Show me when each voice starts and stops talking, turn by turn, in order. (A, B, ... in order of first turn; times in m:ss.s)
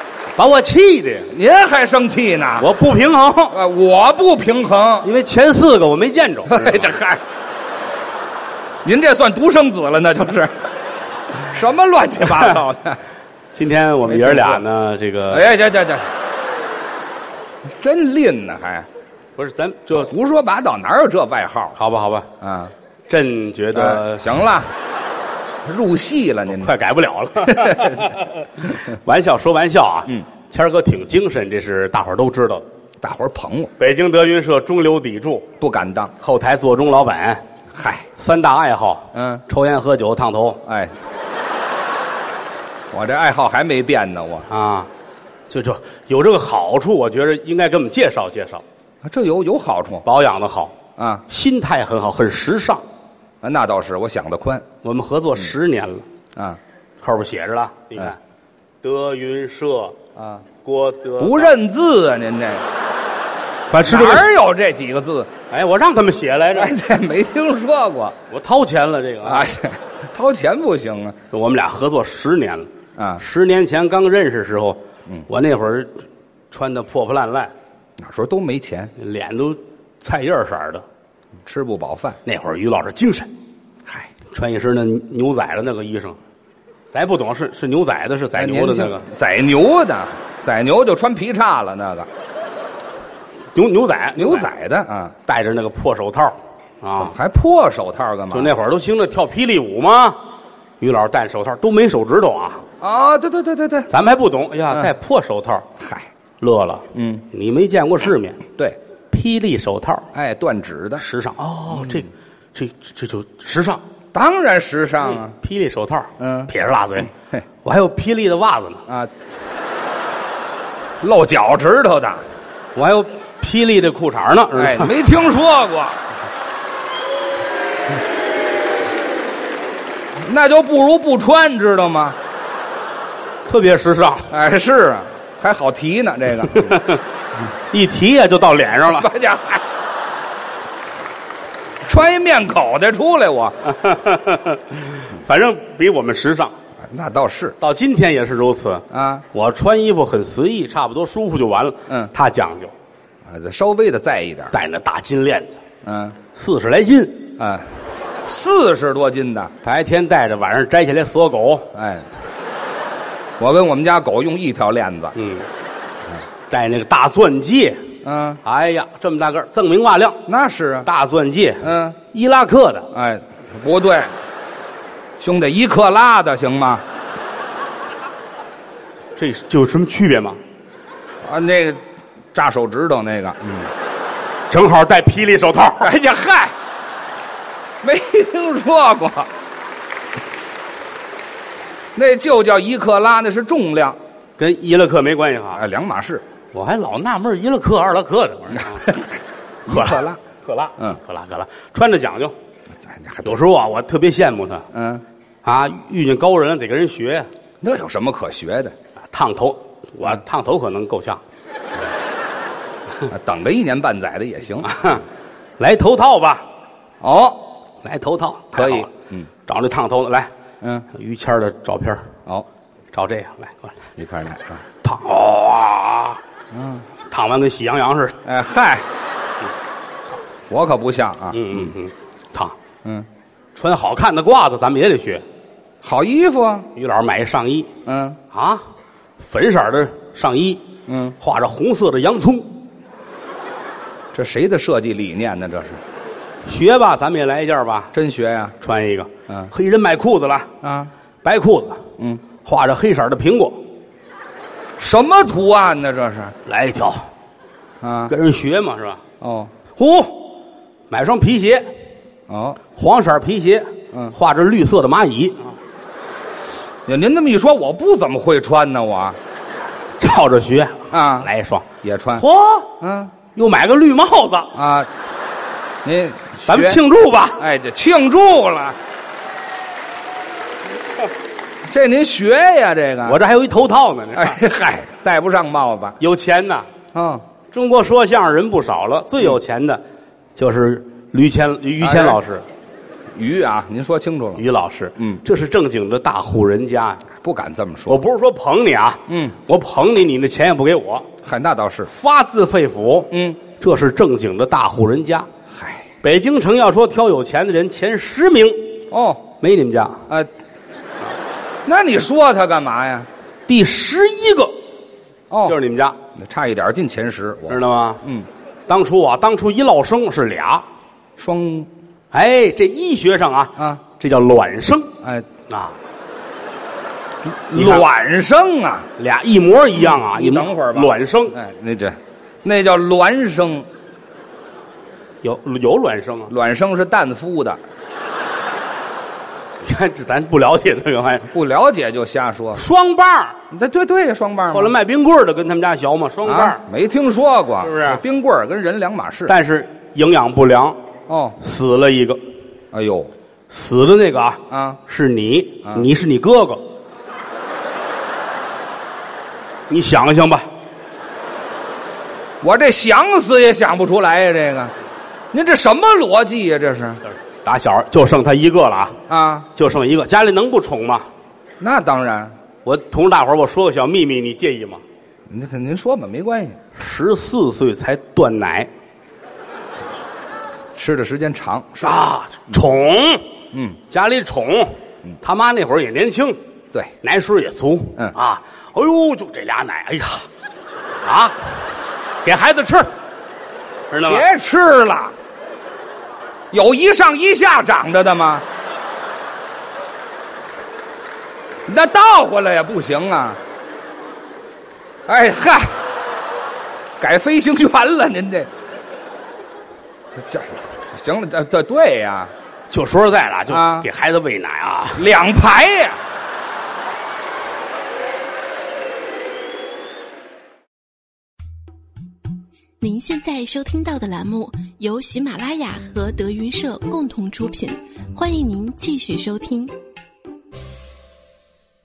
0:00.4-0:01.3 A
0:01.3-0:02.7 B
0:02.6-0:03.6 A
0:03.5-0:05.1 B
0:05.0-0:06.9 A
0:06.5-0:07.2 B
0:08.8-0:10.7 B
0:11.5-0:13.0 B
0:13.5-0:15.5 A
0:14.0-0:14.6 B
0:15.3-0:16.1 B
0:17.7-0:18.9 B
0:19.4-0:20.1 A
0:19.9-0:21.8 B
0:21.8-0:22.3 A
0:22.4-0:22.7 B
0:23.1-0:24.3 A
0:23.7-0:24.7 B
0:25.6-0:26.7 B
0:26.5-0:32.6 A
0:27.5-0:28.1 B
0:33.0-0:33.7 B
0:33.8-0:35.5 A
0:35.6-0:36.1 B
0:36.2-0:37.4 A
0:37.7-0:38.1 B
0:38.2-0:40.6 A
0:39.1-0:39.4 B
0:40.6-0:40.9 B
0:42.9-0:44.5 B
0:44.5-0:44.9 A
0:45.5-0:48.6 A
0:49.0-0:50.0 B
0:50.0-0:50.7 A
0:51.0-0:51.2 B
0:51.3-0:52.8 A
0:53.4-0:54.7 B
0:54.8-0:56.0 A
0:56.3-0:56.6 B
0:57.0-0:58.2 A
0:58.8-1:00.0 A
1:00.2-1:00.4 B
1:00.6-1:01.6 A
1:01.2-1:02.7 B
1:03.7-1:04.3 A
1:03.8-1:05.3 B
1:05.5-1:06.7 A
1:06.5-1:08.2 B
1:08.3-1:09.5 A
1:09.2-1:11.2 B
1:11.3-1:17.5 A
1:13.0-1:13.2 B
1:18.0-1:18.9 B
1:19.0-1:20.8 A
1:21.4-1:22.2 B
1:22.2-1:23.3 A
1:24.3-1:26.2 A
1:26.9-1:29.0 A
1:28.4-1:32.1 B
1:33.5-1:34.5 A
1:34.2-1:35.2 B
1:35.2-1:37.1 A
1:37.0-1:38.5 B
1:38.3-1:40.2 A
1:40.8-1:42.6 A
1:42.8-1:43.9 B
1:43.9-1:45.7 A
1:45.8-1:46.1 B
1:46.4-1:48.4 A
1:46.9-1:47.2 B
1:49.1-1:50.1 A
1:50.1-1:51.0 B
1:51.0-1:53.8 A
1:51.7-1:52.0 B
1:54.1-1:55.3 B
1:55.3-1:57.1 A
1:56.2-1:56.5 B
1:57.6-1:58.8 A
2:01.0-2:02.2 B
2:02.7-2:04.9 A
2:04.6-2:06.0 B
2:10.2-2:12.2 B
2:13.5-2:14.3 A
2:14.3-2:16.8 B
2:16.5-2:17.0 A
2:17.7-2:19.1 A
2:18.9-2:19.6 B
2:21.8-2:23.6 B
2:23.6-2:26.5 A
2:26.8-2:27.6 B
2:27.6-2:32.7 A
2:28.9-2:29.2 B
2:33.2-2:34.5 B
2:34.5-2:35.6 A
2:35.8-2:36.2 B
2:36.3-2:37.3 A
2:37.4-2:37.7 B
2:38.2-2:39.5 B
2:39.6-2:41.7 A
2:41.7-2:42.1 B
2:43.4-2:45.1 B
2:45.1-2:45.5 A
2:46.5-2:47.8 A
2:48.0-2:48.4 B
2:48.4-2:50.2 A
2:50.2-2:50.9 B
2:50.8-2:52.9 A
2:51.6-2:52.0 B
2:52.9-2:54.1 B
2:55.2-2:56.8 B
2:59.2-3:00.4 A
3:01.2-3:03.7 B
3:04.5-3:05.9 A
3:05.8-3:06.5 B
3:07.8-3:09.3 B
3:11.9-3:14.0 B
3:14.4-3:15.6 A
3:15.5-3:16.2 B
3:16.5-3:18.9 A
3:18.7-3:20.2 B
3:19.7-3:22.3 A
3:22.8-3:23.4 B
3:23.2-3:24.6 A
3:24.7-3:25.0 B
3:25.4-3:27.3 A
3:27.6-3:28.7 B
3:29.1-3:31.2 A
3:33.0-3:34.7 B
3:34.6-3:35.0 A
3:35.6-3:36.4 A
3:37.0-3:37.4 B
3:37.8-3:38.9 A
3:38.5-3:39.3 B
3:39.4-3:40.3 A
3:40.6-3:40.8 B
3:40.9-3:42.1 A
3:42.9-3:43.7 A
3:44.0-3:44.6 B
3:44.8-3:46.2 A
3:46.5-3:46.8 B
3:47.1-3:48.2 A
3:48.2-3:48.8 B
3:50.5-3:51.7 B
3:51.3-3:52.5 A
3:53.6-3:55.2 A
3:55.8-3:56.7 B
3:56.7-3:57.7 A
3:57.8-3:58.2 B
3:58.3-3:58.6 A
3:59.2-4:00.6 A
4:00.9-4:01.2 B
4:01.2-4:02.5 A
4:04.1-4:05.8 B
4:06.4-4:07.9 A
4:07.9-4:08.5 B
4:08.6-4:10.5 A
4:10.6-4:10.9 B
4:11.2-4:11.8 A
4:12.4-4:13.6 A
4:14.8-4:16.4 B
4:16.4-4:17.0 A
4:17.8-4:18.1 B
4:18.1-4:19.0 A
4:19.2-4:19.5 B
4:19.8-4:20.2 A
4:20.9-4:21.7 A
4:22.3-4:22.6 B
4:22.7-4:25.5 A
4:26.9-4:29.2 B
4:30.0-4:32.8 A
4:30.9-4:31.3 B
4:31.8-4:32.2 B
4:32.8-4:33.1 B
4:33.3-4:34.5 A
4:34.5-4:34.9 B
4:35.8-4:36.8 B
4:36.5-4:37.4 A
4:37.4-4:38.8 B
4:41.6-4:43.2 B
4:43.0-4:44.4 A
4:44.1-4:46.0 B
4:46.0-4:46.6 A
4:46.9-4:47.2 B
4:47.5-4:49.8 A
4:50.4-4:52.4 A
4:51.8-4:52.2 B
4:53.1-4:54.4 B
4:54.4-4:57.0 A
4:57.1-4:58.0 B
4:57.9-5:01.1 A
4:59.1-4:59.4 B
5:01.2-5:01.9 B
5:01.9-5:05.3 A
5:03.1-5:03.4 B
5:05.5-5:05.8 B
5:06.0-5:08.6 A
5:08.9-5:09.3 B
5:09.4-5:10.0 A
5:11.6-5:13.1 B
5:13.5-5:14.5 A
5:15.3-5:15.6 B
5:15.4-5:16.0 A
5:16.1-5:18.3 B
5:17.5-5:18.0 A
5:18.7-5:20.6 A
5:21.2-5:21.7 B
5:22.1-5:24.9 A
5:25.0-5:25.3 B
5:25.5-5:25.8 A
5:27.2-5:28.9 B
5:27.5-5:27.9 A
5:29.0-5:31.3 A
5:29.8-5:33.7 B
5:35.2-5:36.3 A
5:36.3-5:37.6 B
5:39.6-5:41.3 A
5:41.3-5:42.6 B
5:42.5-5:43.4 A
5:43.5-5:44.7 B
5:44.5-5:46.6 A
5:46.2-5:49.3 B
5:47.6-5:48.0 A
5:49.3-5:50.8 A
5:51.1-5:51.4 B
5:51.4-5:52.2 A
5:52.7-5:53.1 B
5:53.5-5:56.6 A
5:54.5-5:54.8 B
5:59.7-6:00.5 A
6:02.4-6:04.7 B
6:05.3-6:07.0 B
6:07.4-6:09.0 A
6:09.1-6:09.5 B
6:09.5-6:11.0 A
6:11.6-6:12.3 B
6:12.6-6:14.8 A
6:15.3-6:16.6 B
6:16.7-6:18.7 A
6:20.7-6:22.0 B
6:21.8-6:23.2 A
6:23.5-6:23.8 B
6:23.9-6:26.4 A
6:27.0-6:30.3 A
6:31.0-6:31.4 A
6:32.2-6:32.9 A
6:33.9-6:34.2 A
6:34.0-6:35.1 B
6:36.5-6:38.4 B
6:41.7-6:43.4 B
6:45.0-6:45.7 B
6:47.0-6:48.5 B
6:50.2-6:52.3 B
6:52.7-6:55.0 A
6:53.5-6:53.9 B
6:55.0-6:56.0 B
7:02.8-7:09.7 C